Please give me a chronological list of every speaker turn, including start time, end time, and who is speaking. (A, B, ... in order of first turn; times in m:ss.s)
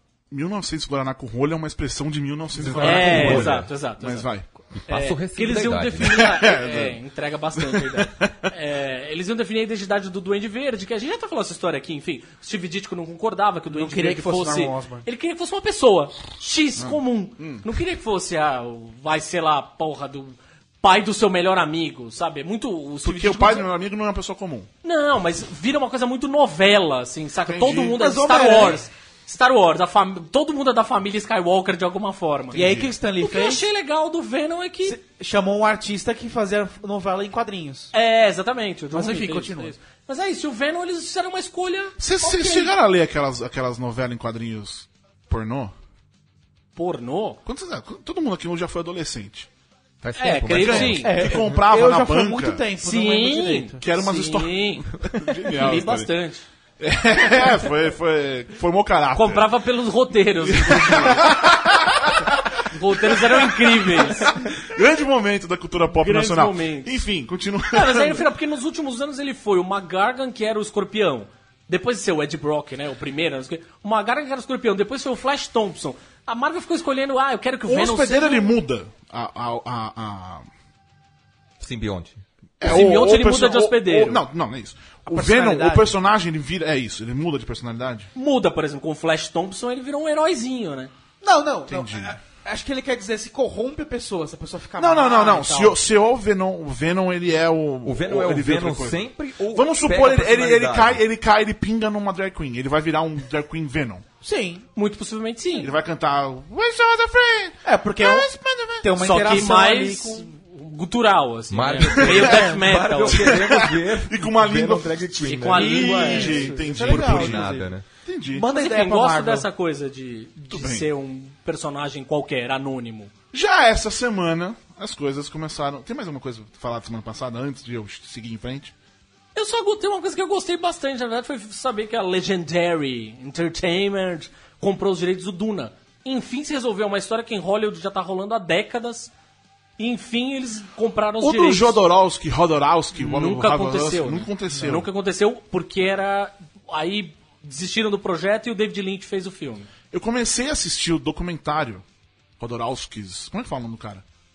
0:00.3-0:04.5 A
0:02.6-0:03.7 B
0:02.8-0:04.3 C
0:04.7-0:06.3 B
0:04.9-0:23.7 C
0:06.0-0:07.0 A
0:07.6-0:08.5 A
0:13.7-0:15.1 D
0:16.8-0:17.6 A
0:23.0-0:24.7 A
0:24.8-0:35.0 C
0:27.4-0:28.0 A
0:27.9-0:28.8 D
0:32.5-0:33.6 D
0:32.5-0:32.9 A
0:34.8-0:37.9 D
0:37.9-0:42.7 C
0:38.9-0:39.8 D
0:42.0-0:45.7 A
0:46.8-0:47.4 C
0:47.4-0:49.5 A
0:50.0-0:51.5 B
0:50.2-0:51.1 C
0:50.5-0:52.6 A
0:50.9-0:53.8 D
0:52.8-0:55.0 C
0:53.8-0:56.1 A
0:55.5-0:56.4 C
0:56.8-0:59.6 A
0:59.1-1:01.5 C
1:00.4-1:08.3 A
1:02.6-1:04.4 C
1:05.9-1:07.0 C
1:07.7-1:18.5 C
1:17.6-1:20.5 A
1:21.6-1:22.2 B
1:22.6-1:28.1 A
1:22.6-1:24.2 C
1:25.1-1:25.9 D
1:28.1-1:30.9 C
1:31.2-1:35.8 D
1:31.7-1:32.2 A
1:34.8-1:44.0 A
1:37.8-1:41.0 B
1:44.2-1:44.6 D
1:44.8-1:45.8 C
1:45.6-1:49.5 A
1:47.6-1:50.3 D
1:49.0-1:53.4 C
1:51.5-1:57.8 B
1:52.0-1:57.5 A
1:55.3-1:56.5 C
1:55.5-1:57.7 D
1:58.0-1:58.5 A
1:58.3-1:59.5 D
1:58.5-2:03.1 C
2:00.5-2:00.9 A
2:03.3-2:08.7 A
2:09.4-2:19.1 C
2:19.8-2:21.8 C
2:21.2-2:24.9 A
2:22.9-2:29.7 C
2:29.9-2:31.8 A
2:32.4-2:34.0 A